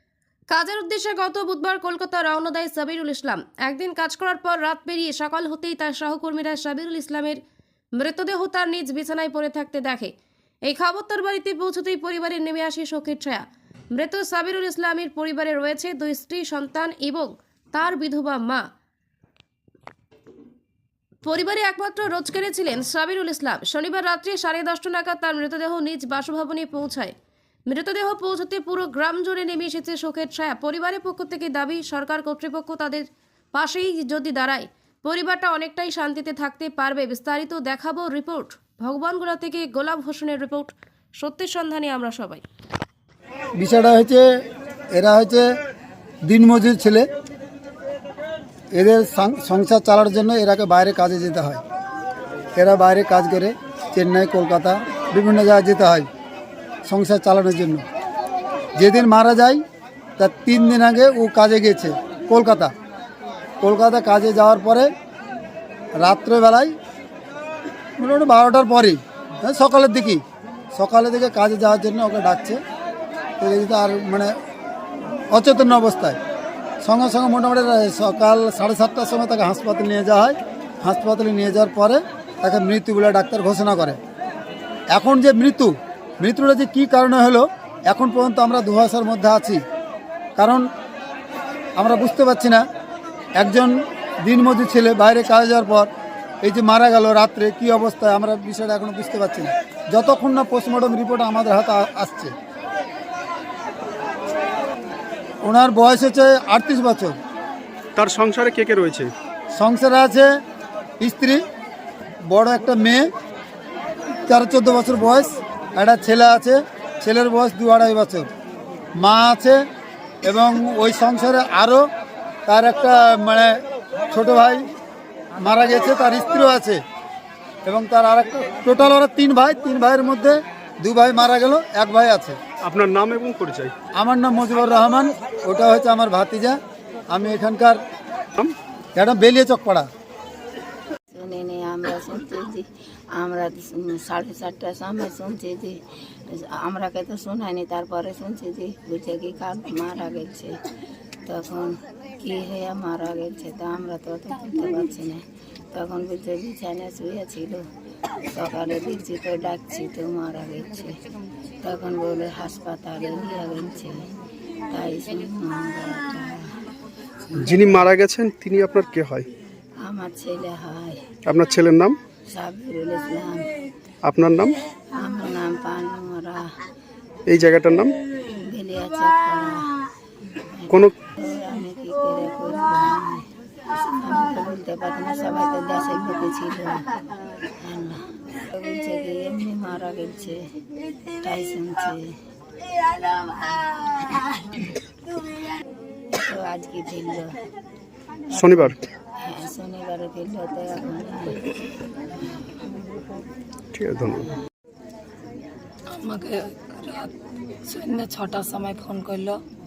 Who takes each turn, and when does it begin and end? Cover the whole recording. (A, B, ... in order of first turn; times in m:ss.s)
0:00.5-0:07.4 A
0:08.0-0:10.1 A
0:10.7-0:18.7 A
0:21.2-0:27.1 A
0:27.7-0:42.4 A
0:43.6-0:44.3 B
0:44.9-0:45.5 B
0:46.3-0:47.1 B
0:48.7-0:51.6 B
0:52.6-0:56.1 B
0:56.9-0:57.8 B
0:58.8-0:59.6 B
1:00.2-1:02.7 B
1:03.6-1:04.9 B
1:06.0-1:06.8 B
1:08.0-1:10.2 B
1:10.8-1:12.6 B
1:13.4-1:14.3 B
1:15.3-1:16.2 B
1:16.8-1:24.0 B
1:24.9-1:29.6 B
1:30.4-1:30.7 B
1:31.8-1:32.6 B
1:33.4-1:35.9 B
1:36.4-1:42.3 B
1:45.4-1:47.2 B
1:48.0-1:49.1 C
1:49.6-1:50.3 B
1:51.0-1:51.4 B
1:52.3-1:53.1 B
1:54.3-1:58.3 B
1:59.0-1:59.6 B
2:00.2-2:01.8 B
2:02.5-2:03.6 B
2:04.1-2:04.7 B
2:05.4-2:06.8 B
2:07.6-2:12.4 B
2:12.6-2:13.7 C
2:14.0-2:16.6 B
2:17.1-2:17.8 B
2:19.0-2:19.9 B
2:21.1-2:25.8 D
2:26.3-2:30.5 D
2:31.3-2:35.2 D
2:35.7-2:37.6 D
2:38.3-2:41.0 D
2:41.6-2:44.0 D
2:44.7-2:46.5 D
2:47.4-2:49.3 C
2:49.8-2:51.0 D
2:51.3-2:52.0 C
2:52.3-2:53.5 D
2:54.0-2:54.6 C
2:55.0-2:56.5 D
2:57.3-2:58.0 C
2:58.3-2:59.8 D
3:00.4-3:03.2 D
3:03.8-3:06.8 D
3:07.6-3:10.4 D
3:11.2-3:12.0 D
3:16.2-3:17.3 D
3:18.3-3:18.8 C
3:19.2-3:21.5 D
3:23.7-3:24.3 C
3:26.0-3:27.1 E
3:27.7-3:29.4 E